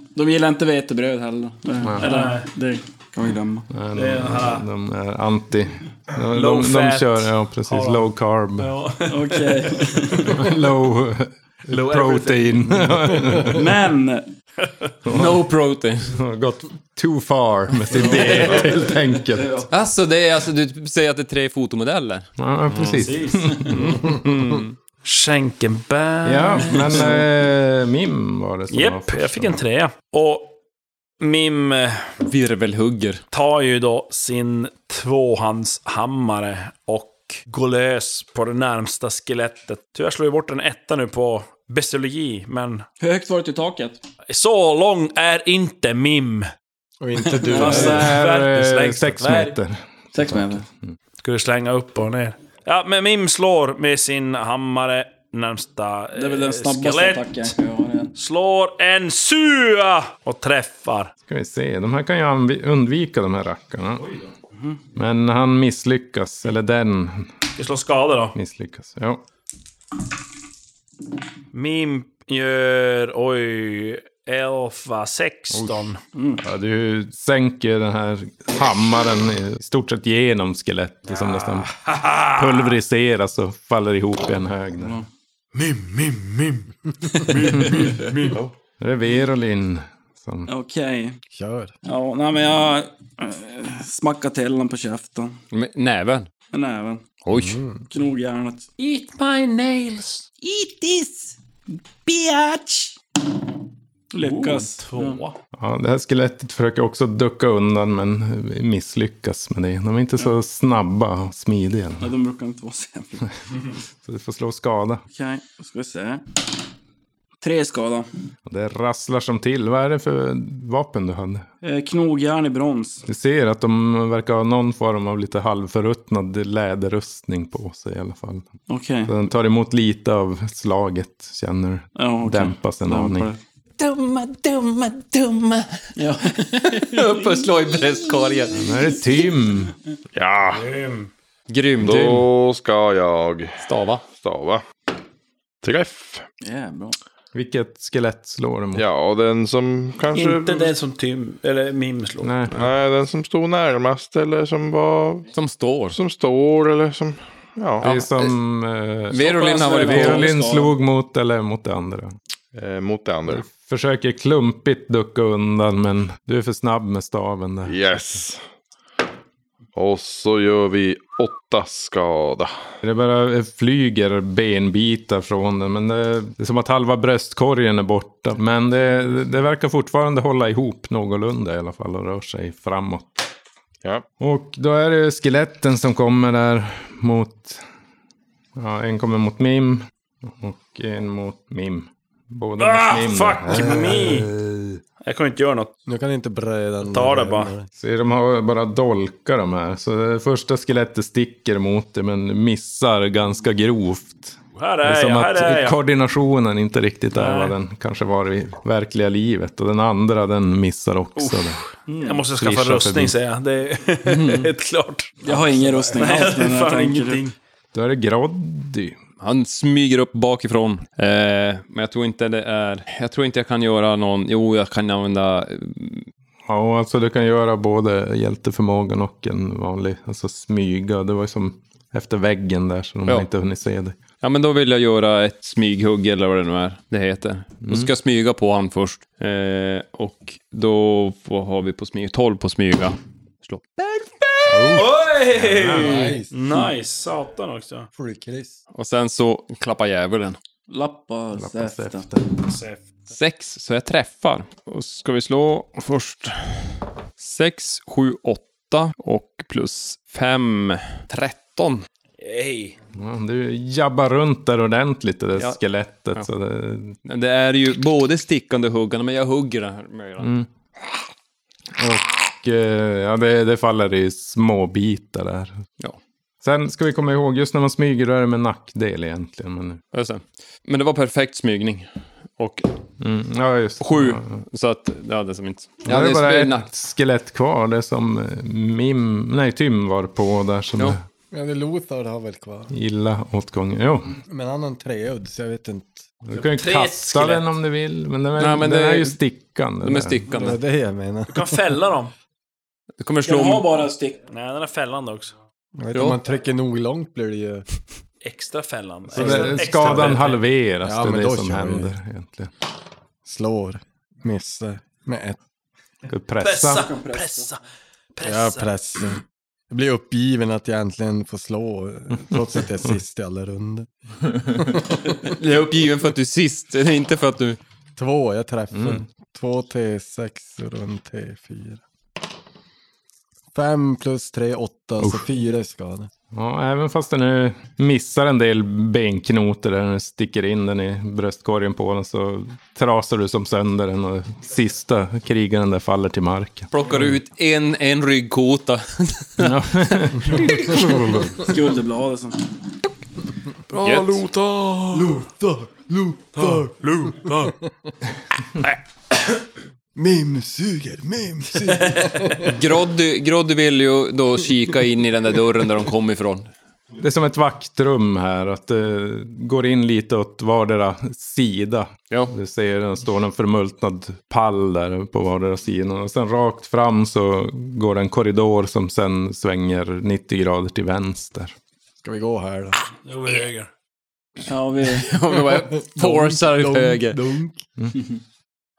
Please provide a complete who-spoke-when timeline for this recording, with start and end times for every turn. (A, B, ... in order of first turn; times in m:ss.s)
0:00.1-0:03.7 A
0:01.8-0:02.1 B
0:02.0-0:02.5 C
0:03.7-0:08.7 B
0:03.9-0:04.6 C
0:06.3-0:10.4 C
0:09.1-0:10.4 A
0:10.3-0:13.7 B
0:11.7-0:13.4 C
0:13.4-0:14.2 A
0:15.1-0:15.4 B
0:15.1-0:16.1 D
0:16.0-0:19.6 B
0:18.0-0:18.8 A
0:19.4-0:19.6 A
0:19.7-0:23.0 D
0:22.4-0:24.0 B
0:23.0-0:23.6 C
0:23.7-0:24.8 D
0:25.0-0:27.2 C
0:26.2-0:29.6 B
0:28.7-0:30.6 C
0:31.2-0:32.1 C
0:32.2-0:33.2 D
0:33.3-0:42.9 C
0:43.0-0:44.0 A
0:44.3-0:46.5 C
0:47.0-0:48.2 E
0:47.4-0:48.1 A
0:47.5-0:49.6 C
0:47.6-0:50.7 B
0:50.1-0:50.6 A
0:51.2-0:57.5 C
0:56.1-0:58.1 A
0:58.1-1:01.1 C
1:01.3-1:04.1 B
1:04.9-1:07.3 B
1:07.6-1:08.4 C
1:08.4-1:09.2 B
1:11.5-1:16.0 C
1:15.5-1:15.9 B
1:16.1-1:16.4 A
1:16.4-1:21.7 B
1:21.1-1:22.5 C
1:22.3-1:25.0 B
1:25.6-1:26.1 C
1:27.5-1:27.8 B
1:28.8-1:30.5 B
1:30.5-1:31.2 A
1:31.3-1:31.7 E
1:31.8-1:35.4 A
1:35.5-1:36.3 D
1:36.5-1:37.0 A
1:37.2-1:37.6 D
1:37.3-1:37.9 E
1:37.9-1:38.7 A
1:38.8-1:40.3 C
1:40.4-1:41.3 A
1:42.0-1:42.9 A
1:44.1-1:45.2 A
1:44.2-1:45.4 C
1:45.5-1:52.1 B
1:52.0-1:53.3 A
1:54.0-1:55.0 B
1:55.1-1:56.2 A
1:57.4-1:58.1 A
1:58.5-2:01.4 B
2:01.6-2:03.0 A
2:03.0-2:08.5 B
2:08.7-2:09.1 A
2:09.1-2:13.3 B
2:12.0-2:13.4 A
2:13.8-2:15.7 D
2:16.0-2:17.1 A
2:16.7-2:18.7 D
2:18.6-2:19.7 B
2:20.1-2:20.7 F
2:20.5-2:21.1 C
2:21.5-2:22.3 D
2:21.8-2:24.6 F
2:23.6-2:24.0 D
2:25.6-2:26.2 F
2:26.4-2:27.0 A
2:27.3-2:28.8 B
2:28.7-2:30.8 F
2:30.1-2:32.3 C
2:32.2-2:32.5 B
2:32.6-2:35.3 F
2:35.3-2:36.0 D
2:35.9-2:37.9 F
2:37.8-2:38.3 D
2:37.8-2:42.1 B
2:39.1-2:40.3 D
2:39.1-2:40.7 A
2:42.6-2:43.5 F
2:43.3-2:48.2 B
2:47.6-2:48.4 F
2:49.8-2:52.5 F
2:52.8-3:03.3 B
3:04.2-3:07.6 B
3:08.6-3:14.8 B
3:12.6-3:14.3 C
3:13.5-3:14.2 E
3:15.0-3:15.7 C
3:15.9-3:17.7 E
3:16.8-3:17.5 C
3:17.8-3:31.6 B
3:24.6-3:25.8 C
3:27.1-3:27.6 C
3:31.2-3:35.2 C
3:31.9-3:32.2 A
3:32.3-3:33.1 B
3:34.1-3:34.4 A
3:35.2-3:36.4 E
3:35.2-3:37.2 A
3:36.0-3:37.4 C
3:37.7-3:39.0 B
3:39.2-3:46.1 D
3:46.5-3:54.0 B
3:54.2-4:04.4 D
3:57.6-3:57.9 B
4:04.5-4:06.1 B
4:04.7-4:07.9 C
4:05.7-4:06.6 E
4:07.9-4:08.6 E
4:08.7-4:10.4 D
4:10.7-4:12.1 A
4:11.4-4:12.3 B
4:12.5-4:12.8 C
4:13.1-4:21.9 D
4:22.2-4:22.8 C
4:23.0-4:27.0 B
4:27.0-4:30.3 D
4:30.2-4:30.5 B
4:31.8-4:35.6 B
4:36.4-4:39.8 B
4:39.9-4:42.7 D
4:43.0-4:44.4 B
4:43.8-4:46.7 D
4:45.8-4:51.0 B
4:51.3-4:52.7 E
4:52.7-4:54.2 B
4:54.3-4:56.1 E
4:56.2-5:00.2 B
4:56.4-4:57.5 C
4:58.4-4:59.1 D
4:59.8-5:00.6 D
5:00.3-5:01.6 E
5:01.3-5:02.1 C
5:03.0-5:03.7 D
5:03.2-5:04.2 A
5:04.3-5:05.4 C
5:05.8-5:07.6 E
5:05.9-5:06.2 D
5:08.2-5:10.4 C
5:09.1-5:10.2 E
5:09.1-5:12.5 B
5:10.8-5:11.9 E
5:13.2-5:15.4 E
5:16.1-5:16.9 B
5:16.4-5:17.6 C
5:16.8-5:17.5 A
5:18.2-5:18.7 C
5:18.2-5:23.9 E
5:24.5-5:25.1 E
5:25.3-5:27.6 D
5:28.0-5:31.8 E
5:28.7-5:29.0 B
5:33.5-5:36.1 E
5:36.3-5:46.7 B
5:46.7-5:50.7 D
5:49.4-5:50.7 B
5:50.2-5:51.4 E
5:51.4-5:52.4 A
5:53.8-5:54.3 D
5:53.8-5:55.0 F
5:54.9-5:57.7 E
5:59.9-6:02.6 E
6:02.4-6:06.5 D
6:07.0-6:21.6 B
6:22.0-6:22.8 E
6:23.0-6:23.7 C
6:24.5-6:25.1 A
6:24.9-6:27.2 D
6:25.3-6:27.6 E